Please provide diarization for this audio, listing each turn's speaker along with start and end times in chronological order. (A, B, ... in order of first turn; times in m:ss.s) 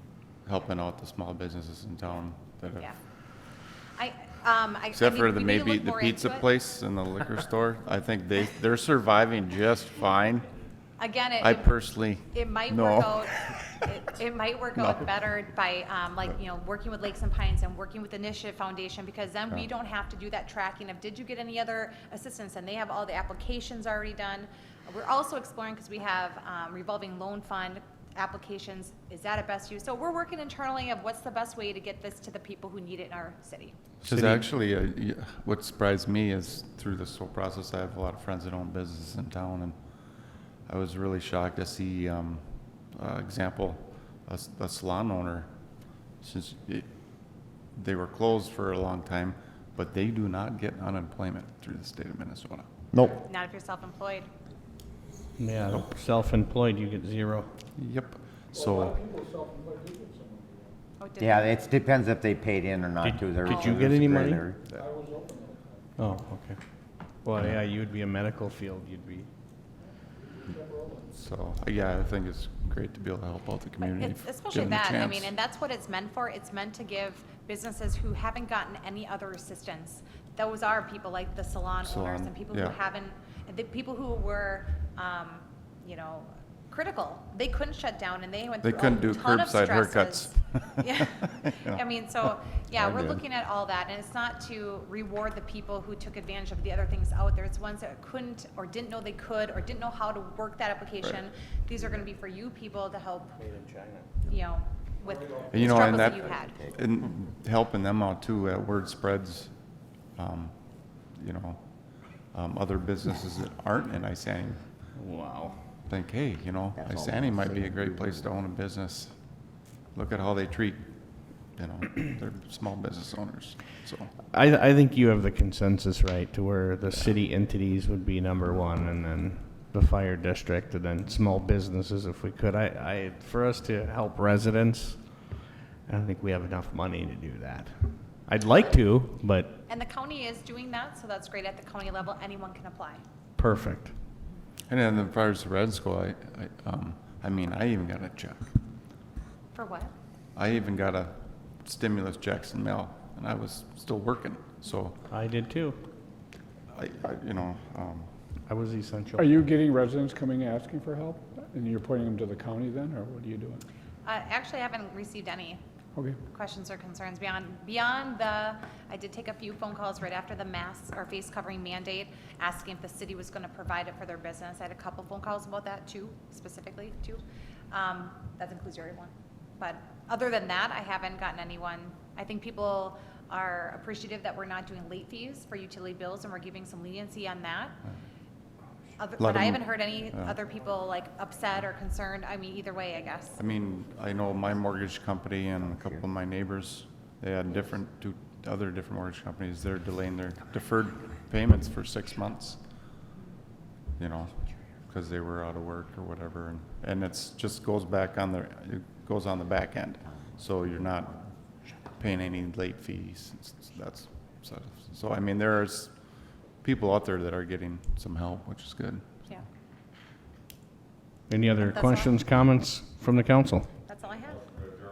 0:00.4-0:02.9 A
0:04.0-0:06.5 B
0:04.9-0:10.5 A
0:11.0-0:33.8 B
0:11.4-0:13.8 A
0:14.8-0:15.1 A
0:34.0-0:39.8 A
0:34.1-0:34.5 C
0:40.7-0:45.5 A
0:46.2-0:46.9 A
0:47.7-0:52.7 A
0:52.9-0:53.2 D
0:53.2-0:54.3 B
0:55.4-0:57.5 C
0:57.8-0:59.0 A
0:58.5-1:00.7 E
1:01.0-1:01.6 B
1:01.2-1:04.6 D
1:03.0-1:04.4 C
1:03.5-1:03.9 B
1:04.8-1:05.9 E
1:06.0-1:06.6 C
1:07.2-1:09.3 C
1:10.3-1:11.1 E
1:11.1-1:15.3 A
1:13.8-1:43.4 B
1:21.8-1:22.8 A
1:28.6-1:31.8 A
1:43.4-1:44.2 C
1:44.2-1:46.6 B
1:45.2-1:45.6 E
1:45.5-1:49.5 A
1:46.5-1:46.8 D
1:50.2-1:50.5 A
1:51.1-1:51.6 A
1:52.3-1:54.6 A
1:55.0-1:55.7 C
1:55.9-1:59.2 A
1:56.8-1:58.1 D
2:00.0-2:00.8 A
2:01.5-2:04.1 A
2:04.3-2:19.6 C
2:19.7-2:23.0 B
2:23.4-2:24.0 C
2:24.7-2:28.5 A
2:29.5-2:29.9 B
2:30.4-2:35.0 A
2:35.1-2:35.8 C
2:36.7-2:38.1 A
2:38.5-2:39.4 C
2:39.2-2:43.6 E
2:44.1-2:45.6 B
2:46.3-3:07.8 B
3:09.0-3:13.4 B
3:09.2-3:10.4 A
3:13.4-3:22.6 A
3:24.0-3:31.3 A
3:32.0-3:35.9 A
3:36.6-3:39.2 A
3:41.3-3:43.7 C
3:41.6-3:42.2 B
3:43.9-3:44.5 B